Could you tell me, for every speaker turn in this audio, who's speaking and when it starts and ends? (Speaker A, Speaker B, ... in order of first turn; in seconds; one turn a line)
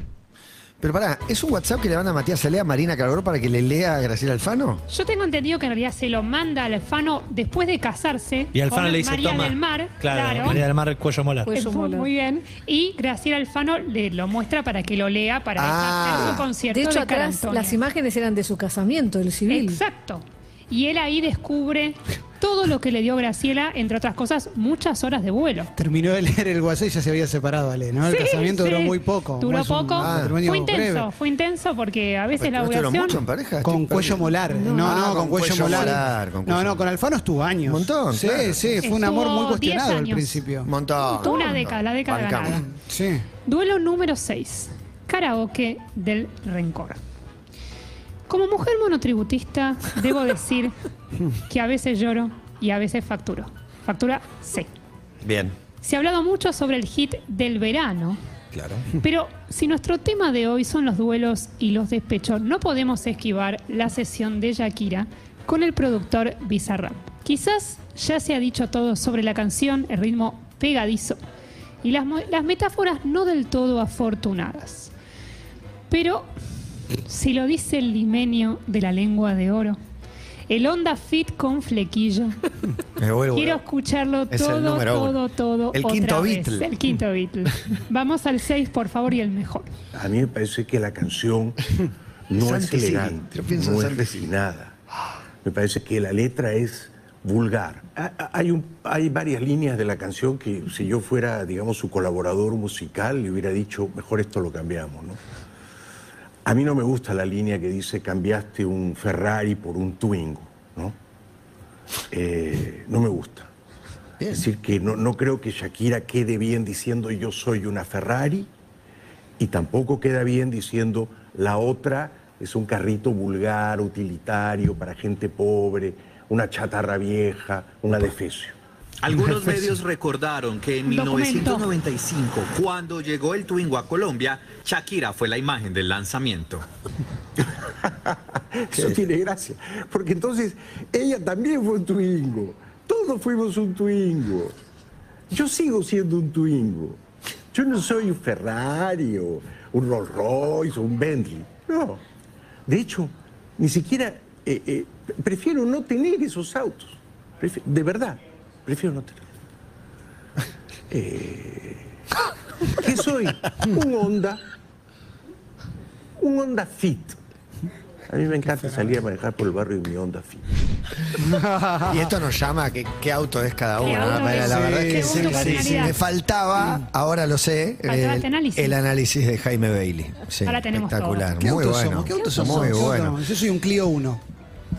Speaker A: 0.8-4.8
Speaker B: 4.9-10.6
Speaker C: 8.5-11.5
Speaker D: 11.4-12.1
Speaker B: 11.5-17.8
Speaker A: 15.6-16.5
Speaker D: 16.7-19.8
Speaker B: 19.5-25.7
Speaker E: 25.8-31.1
Speaker B: 28.1-33.2
Speaker A: 30.0-30.4
Speaker A: 32.4-36.8
Speaker E: 33.6-40.7
Speaker D: 34.5-35.3
Speaker A: 37.6-38.8
Speaker B: 38.8-40.4
Speaker A: 40.6-42.6
Speaker B: 41.2-42.6
Speaker E: 42.7-43.2
Speaker B: 43.5-47.0
Speaker B: 48.3-50.7
Speaker B: 51.4-54.7
Speaker A: 55.2-55.5
Speaker B: 55.8-58.2
Speaker A: 58.5-58.8
Speaker B: 59.0-71.2
Speaker B: 71.8-74.9
Speaker B: 75.9-76.3
Speaker B: 77.0-79.8
Speaker B: 80.5-82.4
Speaker A: 83.0-83.6
Speaker B: 83.3-89.7
Speaker A: 84.3-85.2
Speaker A: 85.7-86.7
Speaker F: 89.9-94.7
Speaker A: 92.3-94.3
Speaker F: 95.4-105.2
Speaker F: 106.4-111.0
Speaker F: 112.1-113.5
Speaker A: 114.2-114.5
Speaker F: 114.2-118.5
Speaker F: 119.4-128.6
Speaker G: 129.0-136.6
Speaker B: 130.8-131.7
Speaker F: 138.1-144.5
Speaker F: 145.3-147.0
Speaker F: 147.5-152.0
Speaker F: 152.7-159.3
Speaker F: 160.9-161.9
Speaker F: 162.8-164.4
Speaker F: 166.2-167.2
Speaker F: 168.1-170.4
Speaker E: 171.2-172.0
Speaker A: 171.8-183.2
Speaker B: 173.8-175.9
Speaker E: 174.3-176.0
Speaker B: 177.8-178.8
Speaker B: 180.4-181.3
Speaker E: 181.4-184.2
Speaker D: 182.1-182.9